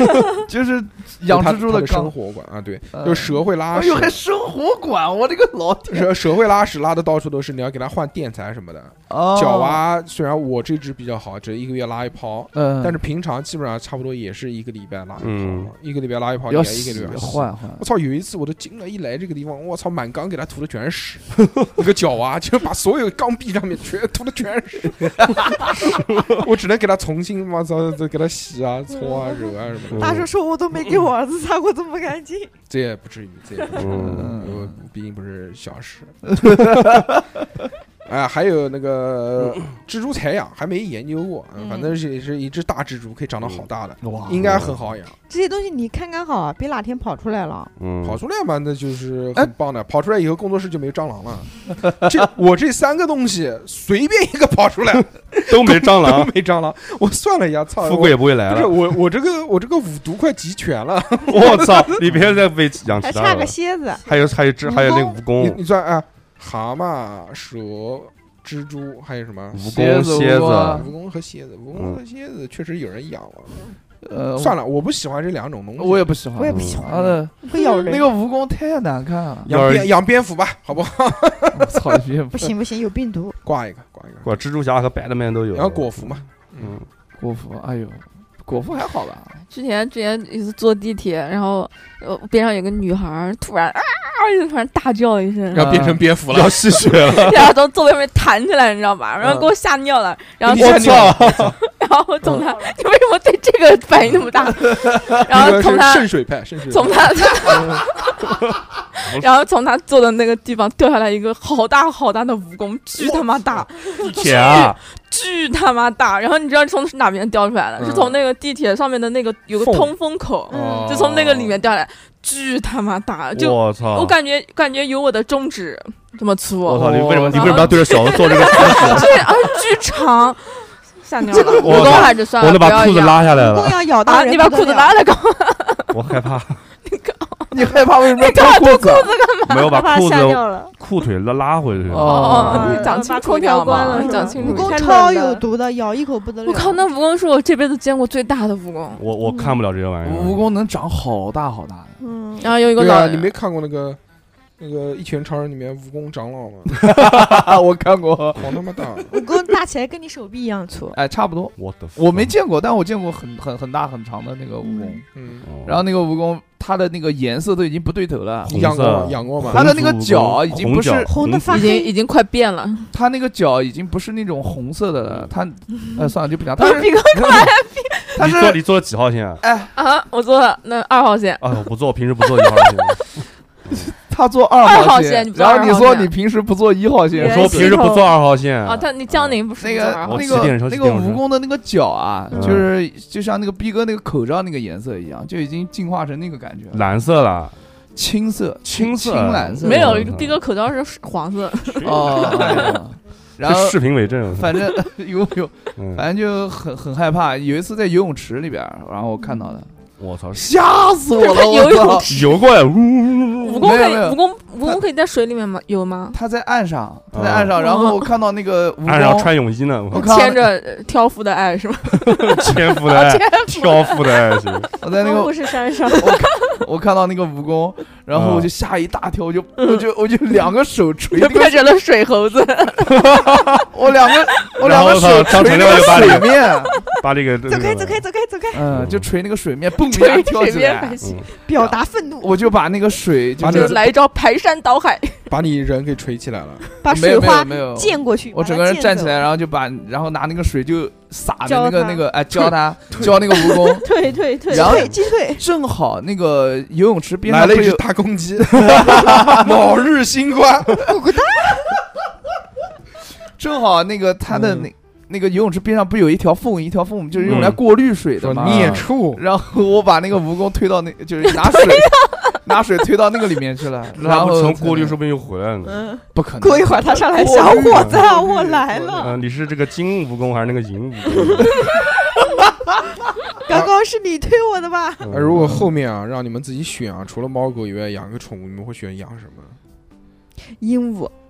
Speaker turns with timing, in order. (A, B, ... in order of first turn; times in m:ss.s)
0:00.4-0:02.1 A
0:01.3-0:04.2 B
0:02.9-0:06.2 A
0:05.9-0:30.2 B
0:09.1-0:09.8 A
0:12.5-0:13.0 A
0:15.2-0:15.7 C
0:16.5-0:17.9 A
0:25.0-0:25.8 A
0:29.8-0:32.5 D
0:29.9-0:30.3 C
0:32.7-0:36.6 B
0:33.7-0:34.4 C
0:33.9-0:34.8 A
0:36.3-0:37.4 A
0:38.0-0:45.2 B
0:44.0-0:44.6 A
0:44.4-0:44.8 C
0:45.3-0:47.7 D
0:47.8-0:48.2 C
0:48.0-1:02.3 B
0:55.4-0:56.3 C
0:57.8-0:59.0 C
1:01.3-1:05.6 C
1:03.0-1:04.0 D
1:04.6-1:05.2 D
1:05.3-1:09.6 B
1:09.5-1:10.9 C
1:09.6-1:10.9 A
1:10.7-1:13.7 B
1:11.7-1:12.0 C
1:14.0-1:14.6 A
1:14.4-1:16.2 B
1:15.8-1:19.5 A
1:16.3-1:18.1 D
1:16.5-1:16.8 C
1:16.9-1:17.2 B
1:19.4-1:22.0 B
1:19.5-1:19.9 C
1:21.5-1:22.5 A
1:22.4-1:23.4 D
1:23.4-1:24.3 B
1:24.2-1:26.8 C
1:25.5-1:26.8 B
1:27.2-1:29.4 A
1:29.5-1:35.9 E
1:35.5-1:37.3 B
1:35.5-1:36.0 A
1:36.3-1:37.5 C
1:37.0-1:46.1 E
1:39.2-1:39.5 B
1:40.5-1:41.6 B
1:40.5-1:41.6 C
1:42.2-1:42.5 B
1:45.2-1:47.8 B
1:46.6-1:48.3 E
1:49.0-2:13.3 E
1:49.0-1:49.3 C
1:53.9-1:54.8 C
1:57.8-1:58.2 B
1:59.5-1:59.9 B
2:00.5-2:01.0 D
2:00.5-2:01.6 B
2:03.3-2:04.2 C
2:06.6-2:09.3 C
2:06.8-2:07.8 A
2:11.3-2:12.1 A
2:11.4-2:13.8 C
2:13.3-2:15.0 D
2:14.0-2:16.0 E
2:15.9-2:16.6 C
2:16.8-2:19.8 E
2:17.5-2:19.1 A
2:19.5-2:22.8 C
2:19.6-2:20.7 F
2:21.9-2:22.8 A
2:22.0-2:24.9 E
2:22.3-2:25.4 F
2:23.9-2:26.8 D
2:24.4-2:24.7 C
2:26.4-2:29.0 E
2:29.0-2:30.4 C
2:30.0-2:32.0 A
2:32.0-2:32.6 D
2:32.4-2:33.3 E
2:32.7-2:34.0 B
2:34.6-2:36.8 B
2:36.8-2:38.8 A
2:38.4-2:39.1 B
2:39.1-2:41.0 D
2:40.9-2:45.0 A
2:41.6-2:42.3 C
2:44.6-2:45.0 D
2:45.1-2:45.5 B
2:45.4-2:45.8 C
2:45.6-2:48.6 A
2:48.4-2:49.7 B
2:48.4-2:51.7 C
2:49.5-2:51.1 A
2:51.0-2:51.9 D
2:51.5-2:52.9 E
2:52.9-2:57.0 A
2:56.6-2:58.2 E
2:56.6-2:57.2 D
2:58.2-2:58.6 A
2:58.2-2:59.4 C
2:59.4-2:59.7 A
2:59.7-3:01.6 E
3:01.4-3:03.0 C
3:02.2-3:02.9 E
3:03.7-3:07.7 A
3:04.6-3:06.1 E
3:07.2-3:08.1 F
3:07.2-3:09.4 C
3:08.6-3:10.5 E
3:09.6-3:16.9 A
3:10.0-3:11.2 C
3:12.3-3:12.7 C
3:16.7-3:17.6 C
3:17.9-3:20.1 A
3:18.6-3:20.4 C
3:19.6-3:22.8 E
3:21.7-3:22.8 C
3:21.8-3:29.7 A
3:23.4-3:24.8 C
3:25.8-3:26.0 C
3:30.0-3:30.5 C
3:30.3-3:32.1 A
3:31.2-3:32.4 E
3:32.1-3:33.8 C
3:33.4-3:36.2 E
3:33.6-3:34.8 A
3:36.1-3:39.3 A
3:37.1-3:37.5 C
3:37.6-3:38.0 E
3:38.8-3:40.1 C
3:39.9-3:40.5 A
3:39.9-3:44.5 E
3:42.1-3:44.7 C
3:44.8-3:51.7 A
3:45.0-3:46.1 F
3:48.1-3:48.5 C
3:51.1-3:53.3 E
3:53.0-3:53.3 C
3:53.7-3:56.8 A
3:54.6-3:56.4 C
3:57.0-3:58.0 C
3:57.4-3:58.7 D
3:58.5-4:01.0 A
3:58.7-3:59.1 C
3:59.8-4:01.2 E
4:01.0-4:01.3 C
4:01.3-4:02.4 D
4:01.6-4:03.8 A
4:03.4-4:03.8 B
4:03.4-4:05.3 E
4:05.3-4:06.7 B
4:06.8-4:09.3 D
4:06.9-4:13.9 A
4:11.4-4:12.1 F
4:12.9-4:13.3 B
4:13.3-4:14.9 F
4:14.5-4:15.4 D
4:14.5-4:17.8 A
4:17.2-4:20.9 B
4:18.6-4:19.5 A
4:20.8-4:21.8 D
4:23.4-4:35.0 A
4:24.3-4:24.7 B
4:27.3-4:27.6 C
4:28.2-4:29.2 B
4:28.5-4:28.8 C
4:34.0-4:35.8 C
4:35.6-4:39.2 D
4:36.1-4:39.2 A
4:37.7-4:38.0 C
4:39.0-4:41.6 C
4:43.4-4:45.1 D
4:43.5-4:43.7 B
4:45.0-4:45.6 C
4:45.1-4:49.6 B
4:50.5-4:51.1 D